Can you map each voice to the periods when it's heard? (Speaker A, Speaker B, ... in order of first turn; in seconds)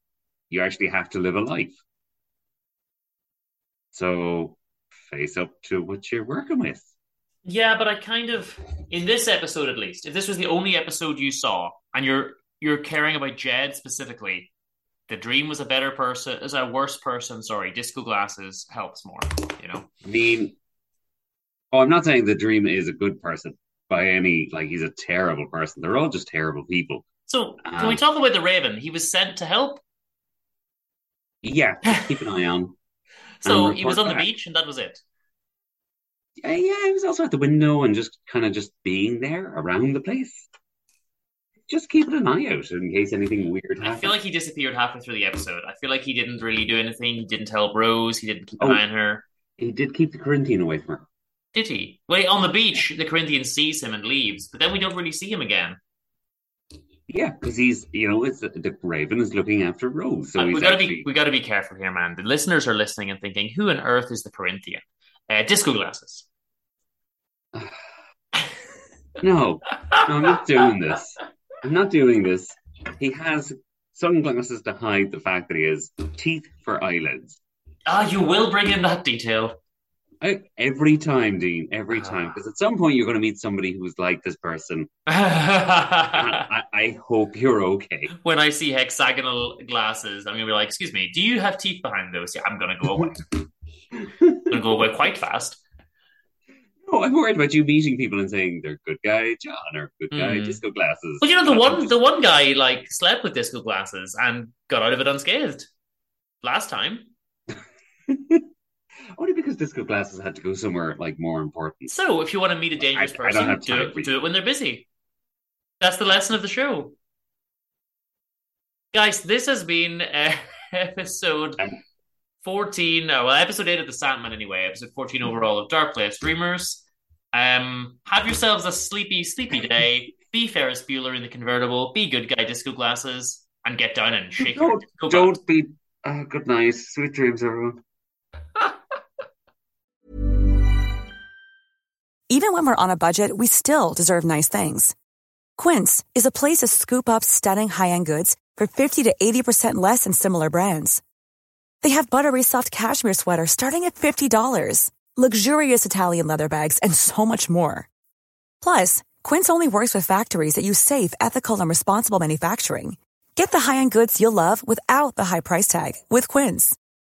Speaker A: 0.5-1.8, 3.9-6.9, 20.0-20.6, 21.7-27.1, 27.6-28.0, 31.4-32.8, 33.4-34.3, 36.4-40.5, 41.7-44.1, 49.6-51.1, 57.1-61.1, 69.2-77.4, 80.2-84.9, 86.1-88.1, 94.0-94.5, 96.8-102.0, 108.1-108.4, 109.2-111.9, 112.9-114.1, 134.4-137.8
Speaker B: 7.4-14.5, 15.1-19.9, 27.3-29.8, 33.4-35.0, 43.8-49.2, 51.5-55.8, 60.4-66.3, 77.9-79.6, 81.9-82.2, 85.1-86.4, 88.1-93.3, 94.5-95.6, 100.1-100.6, 101.2-105.7, 106.4-107.1, 111.9-114.9, 115.8-116.9, 118.9-121.6, 122.4-135.4
Speaker C: 142.3-144.9, 145.6-151.0, 151.8-157.9, 158.6-166.8